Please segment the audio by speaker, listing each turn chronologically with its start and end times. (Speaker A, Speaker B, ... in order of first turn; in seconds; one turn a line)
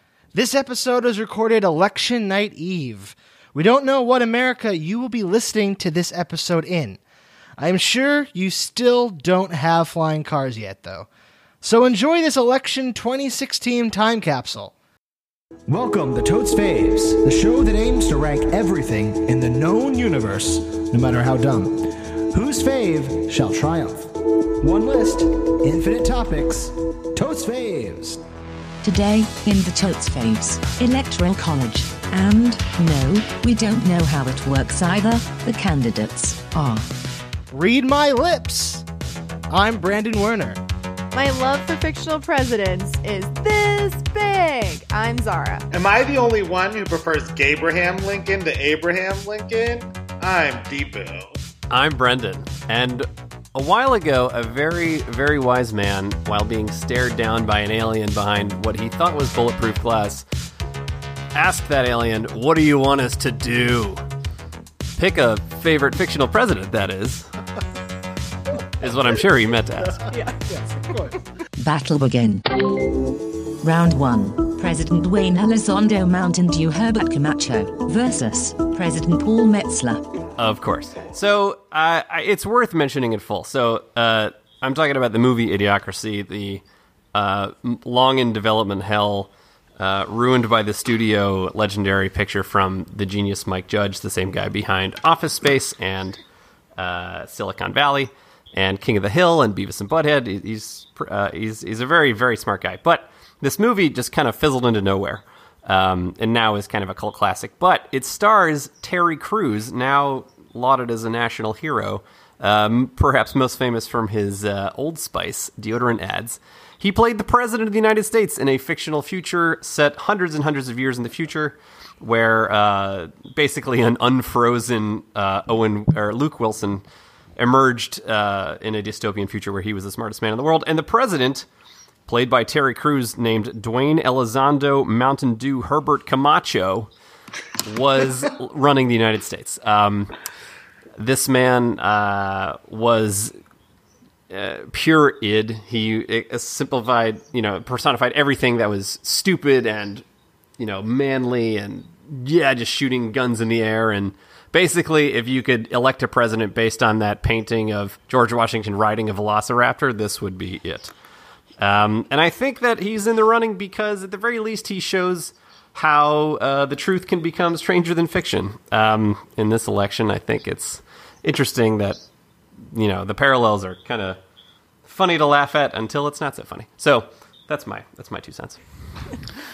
Speaker A: 0.3-7.0
Speaker A: 7.6-11.1
Speaker A: 11.6-14.7
Speaker A: 15.7-28.2
Speaker B: 28.8-36.9
Speaker A: 37.5-38.8
Speaker A: 39.5-40.6
Speaker C: 41.1-45.6
Speaker D: 45.7-51.4
Speaker E: 51.7-60.2
Speaker E: 61.3-64.0
Speaker E: 65.0-67.3
Speaker A: 68.6-69.0
Speaker E: 68.8-70.0
Speaker A: 69.8-71.2
Speaker C: 70.1-70.4
Speaker B: 71.6-72.5
Speaker B: 73.6-80.1
Speaker E: 80.4-86.6
Speaker E: 87.1-96.2
Speaker E: 96.8-126.8
Speaker E: 127.4-131.5
Speaker E: 132.1-136.9
Speaker E: 137.6-140.1
Speaker E: 140.9-143.3
Speaker E: 144.3-150.0
Speaker E: 150.6-160.9
Speaker E: 161.6-172.0
Speaker E: 172.6-174.2
Speaker E: 174.8-178.6